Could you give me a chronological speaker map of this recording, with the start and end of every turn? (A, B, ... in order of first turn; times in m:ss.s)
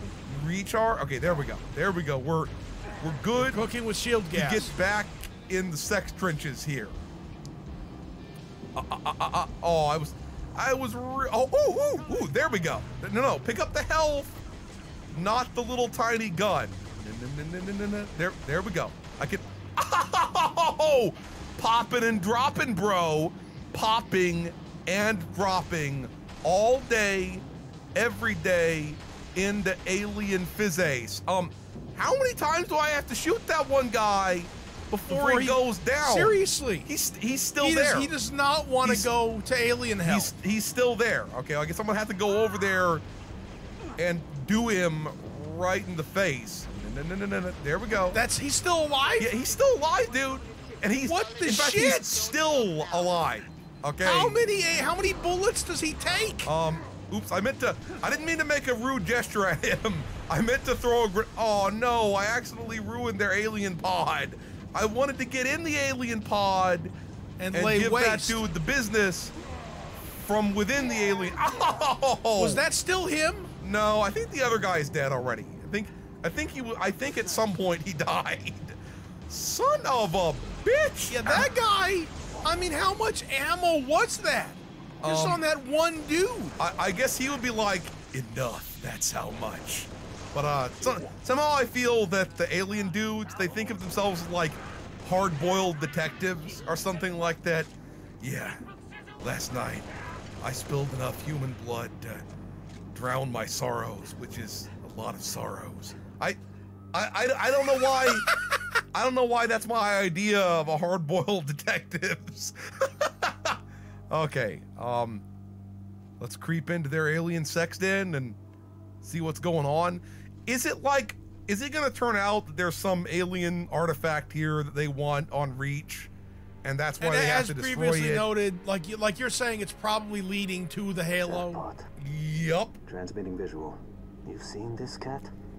0:00.2-0:03.6 A
0:03.4-0:04.7 B
0:04.3-0:07.0 A
0:08.7-0:14.3 A
0:15.1-0:27.4 A
0:27.9-0:38.1 A
0:35.1-0:36.9 B
0:37.6-0:40.3 B
0:38.8-0:39.1 A
0:40.0-0:43.0 A
0:44.0-0:48.2 A
0:48.1-0:49.3 B
0:49.2-0:54.4 A
0:51.0-0:52.2 B
0:54.0-0:56.5 B
0:56.4-1:06.9 A
1:07.4-1:08.4 B
1:07.5-1:09.3 A
1:10.2-1:12.6 A
1:12.4-1:13.5 B
1:13.6-1:21.5 A
1:21.1-1:26.6 B
1:25.0-1:25.4 A
1:26.6-1:38.6 A
1:39.2-1:39.9 A
1:40.4-1:42.3 A
1:42.9-1:46.4 A
1:46.9-1:48.3 A
1:48.9-1:53.6 A
1:54.1-1:55.2 A
1:56.2-1:58.4 A
1:59.0-2:06.1 A
2:06.6-2:08.3 A
2:07.0-2:11.6 B
2:11.2-2:11.8 C
2:12.0-2:12.8 A
2:12.8-2:15.3 C